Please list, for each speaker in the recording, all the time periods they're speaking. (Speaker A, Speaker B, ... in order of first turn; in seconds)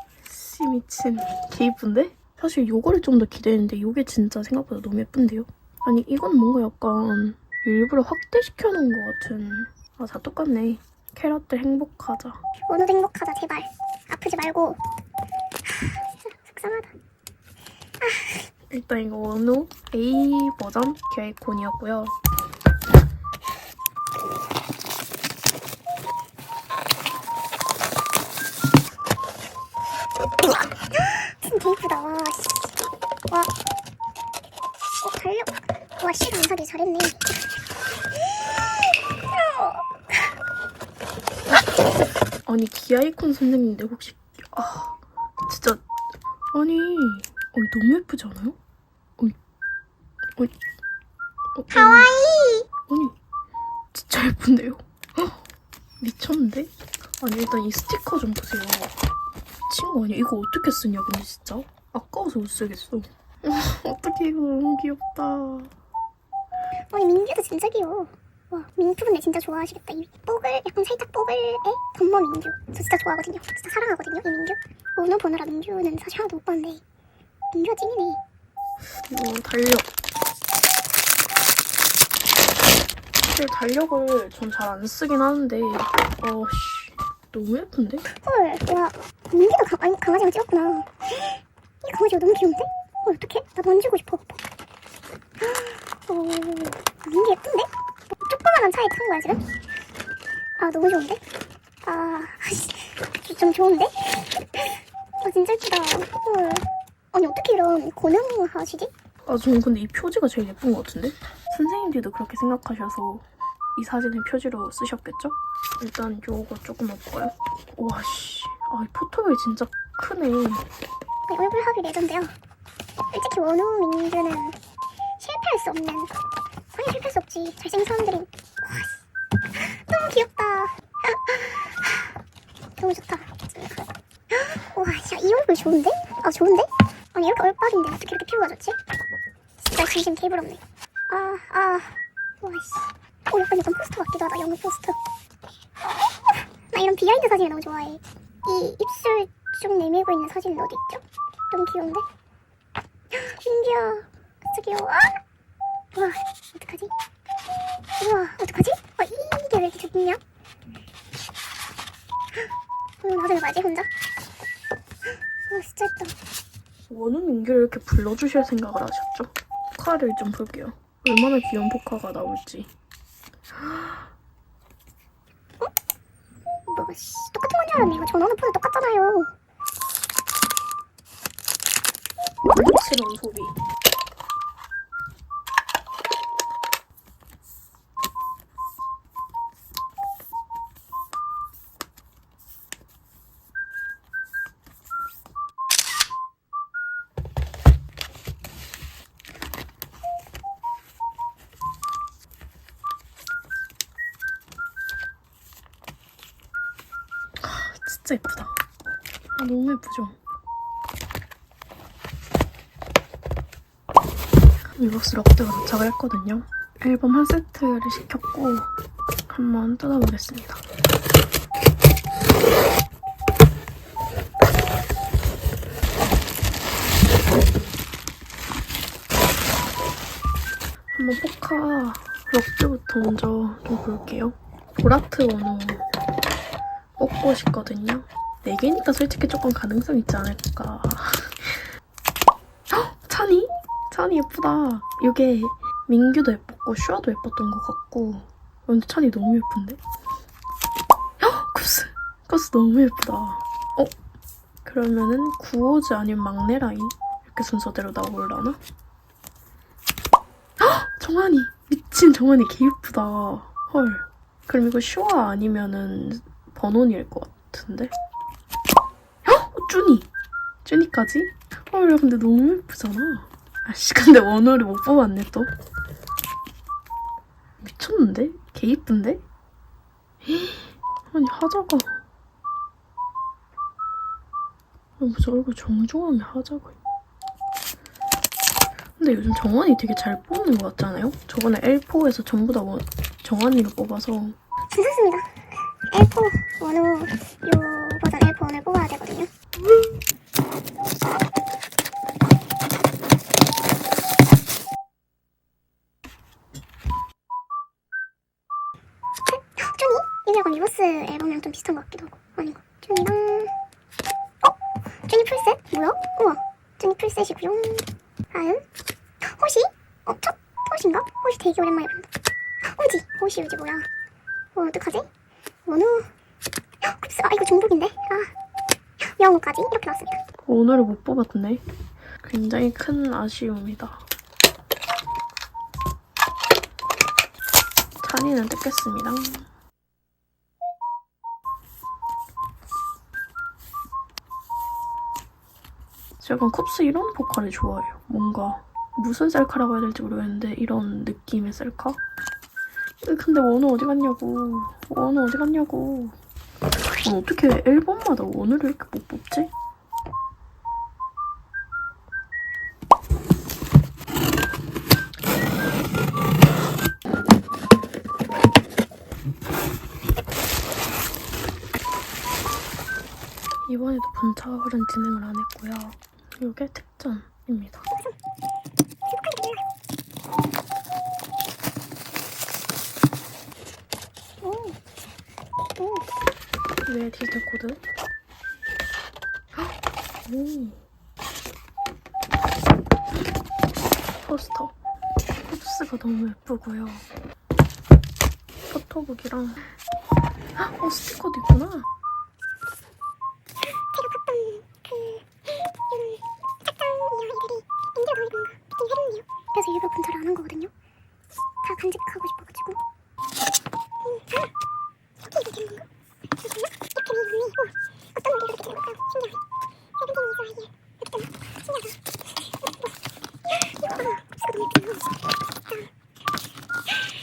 Speaker A: 0.2-12.4, 18.7-22.1, 42.5-45.8, 46.5-48.6, 51.5-52.1, 52.9-53.1, 53.9-55.4, 56.0-59.0, 59.7-65.7, 79.1-79.9, 83.2-88.0, 109.2-120.7, 166.9-172.7, 173.5-174.1, 182.4-183.5, 207.4-208.6, 209.3-210.2, 214.7-218.7, 219.3-220.6, 230.9-235.8, 237.0-241.6, 242.7-249.8, 251.2-253.9, 254.6-258.6, 260.6-267.9, 269.2-270.1, 270.6-275.5, 277.6-279.2, 280.2-282.0, 285.0-286.8, 289.0-294.4, 330.4-331.6, 332.2-334.0, 338.0-339.5, 346.2-352.0, 353.0-356.2, 357.0-359.5, 373.6-377.9, 386.9-387.8, 389.5-390.8, 394.2-394.7, 395.5-397.1, 398.7-399.7, 400.6-401.9
Speaker B: 12.7-14.8, 15.7-16.9, 18.0-18.5, 31.4-32.7, 35.0-35.5, 36.0-37.4, 39.3-40.3, 51.7-52.7, 66.9-76.8, 77.5-78.2, 88.1-94.4, 95.4-99.4, 100.6-101.2, 101.8-108.9, 121.3-122.3, 123.1-124.6, 125.2-126.1, 126.7-129.0, 129.6-132.1, 132.8-138.8, 139.6-145.0, 146.0-152.0, 153.1-155.2, 155.9-156.9, 158.0-160.2, 163.0-163.9, 165.1-166.1, 176.7-179.3, 294.7-299.3, 309.3-313.5, 314.4-318.6, 319.2-322.1, 322.6-323.9, 324.5-325.1, 325.6-326.1, 326.8-328.3, 329.1-330.2, 379.0-379.6, 384.4-384.8, 385.8-386.1, 403.9-410.7, 411.6-412.8, 414.0-414.5, 415.2-415.9, 416.4-419.4, 420.0-422.9, 423.5-425.1